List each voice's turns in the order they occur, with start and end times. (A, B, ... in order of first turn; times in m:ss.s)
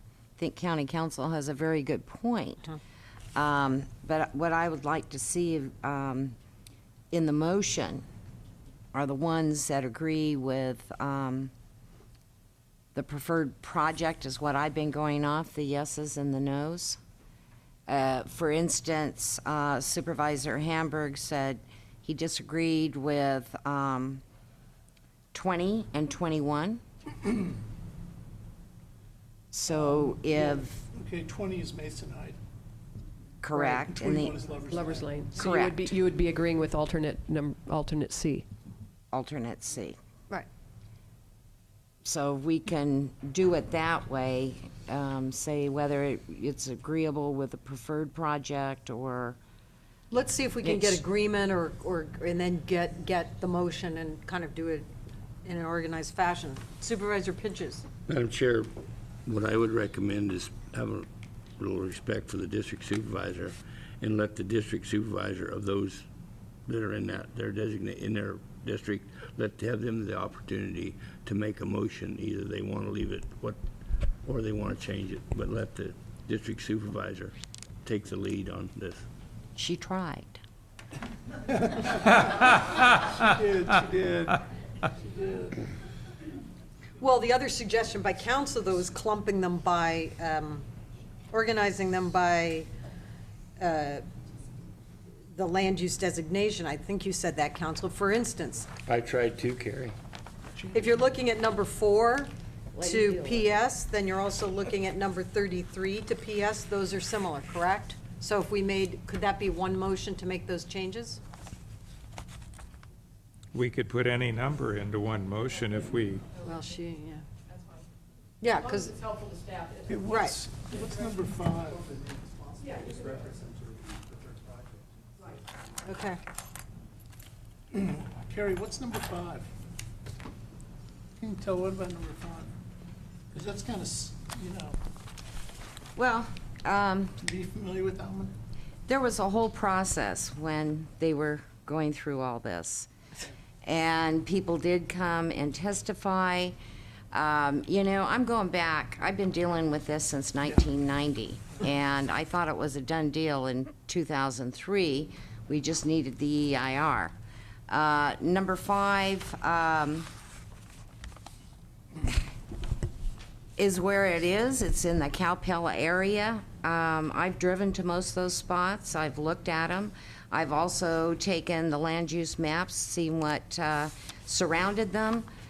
0:00.4-0:02.7 A
0:03.4-0:06.4 A
0:07.1-0:08.0 A
0:08.9-0:11.5 A
0:13.0-0:17.0 A
0:17.9-0:24.2 A
0:25.3-0:26.8 A
0:29.5-0:30.8 A
0:29.7-0:32.4 B
0:33.4-0:34.4 A
0:33.5-0:33.9 C
0:33.8-0:35.4 B
0:34.7-0:38.5 C
0:35.4-0:36.0 A
0:39.1-0:40.0 A
0:42.0-0:49.4 A
0:50.1-0:54.9 D
0:50.6-0:51.0 A
0:55.4-0:57.8 D
0:58.1-0:58.7 E
0:59.3-1:06.1 E
1:06.7-1:13.6 E
1:14.2-1:19.0 E
1:19.6-1:20.4 A
1:23.2-1:24.4 B
1:25.0-1:25.6 B
1:27.0-1:30.6 D
1:31.3-1:32.7 D
1:33.6-1:34.0 D
1:35.3-1:38.7 D
1:38.9-1:40.0 E
1:40.7-1:51.2 D
1:42.7-1:43.6 A
1:53.5-1:56.3 F
1:56.4-1:57.2 D
1:58.4-1:59.0 D
1:58.6-2:00.0 C
1:59.9-2:01.9 B
2:00.1-2:00.4 D
2:02.6-2:03.2 C
2:05.8-2:06.2 D
2:07.7-2:09.5 B
2:11.2-2:12.5 B
2:13.3-2:14.8 B
2:16.0-2:17.2 A
2:17.2-2:18.3 B
2:18.9-2:22.9 A
2:23.6-2:26.6 A
2:27.1-2:37.2 A
2:37.7-2:40.1 A
2:43.6-2:55.3 A